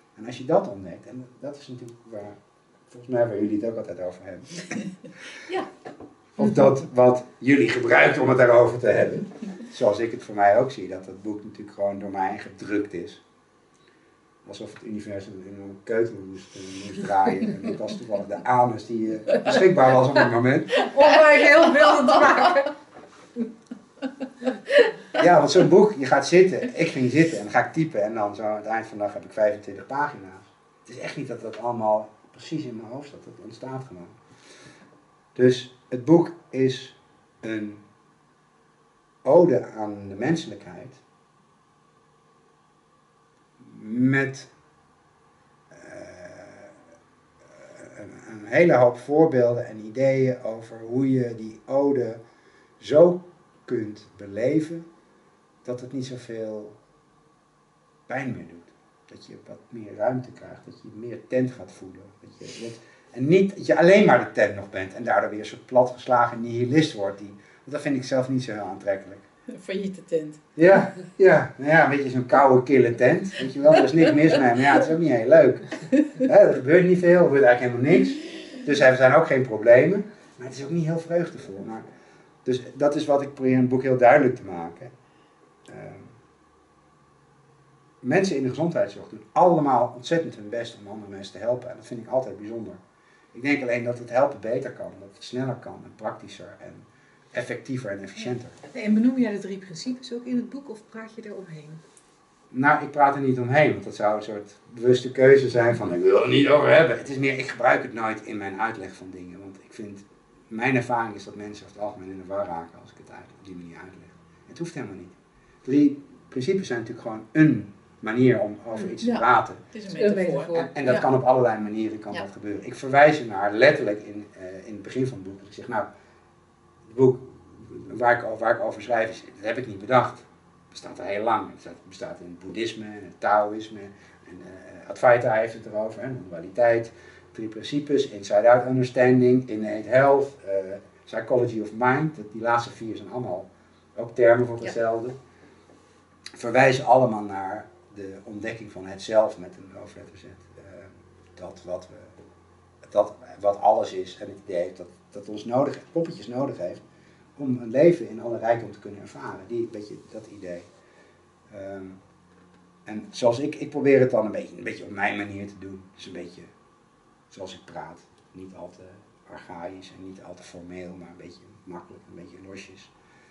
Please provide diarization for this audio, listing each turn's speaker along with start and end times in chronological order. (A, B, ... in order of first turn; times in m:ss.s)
0:00.2-0:04.8 A
0:06.4-0:13.2 A
0:14.4-0:20.8 A
0:20.8-0:22.7 B
0:25.2-0:34.2 A
0:35.4-0:37.8 A
0:39.2-0:41.0 A
0:43.6-0:44.5 A
0:45.7-0:46.8 A
0:47.6-0:52.2 A
0:52.8-0:54.9 A
0:55.6-0:56.8 A
0:58.1-1:09.2 A
1:09.5-1:10.4 C
1:10.6-1:21.8 A
1:22.4-1:24.9 A
1:25.7-1:26.1 A
1:28.0-1:32.8 A
1:33.3-1:38.6 A
1:38.7-1:41.8 B
1:42.5-1:59.6 A
1:59.0-2:01.0 C
1:59.9-2:00.7 B
2:00.6-2:05.9 A
2:06.9-2:25.2 A
2:26.4-2:32.1 A
2:32.8-2:36.8 A
2:37.4-2:40.7 A
2:41.5-2:42.0 A
2:42.9-2:46.5 A
2:47.3-2:52.9 A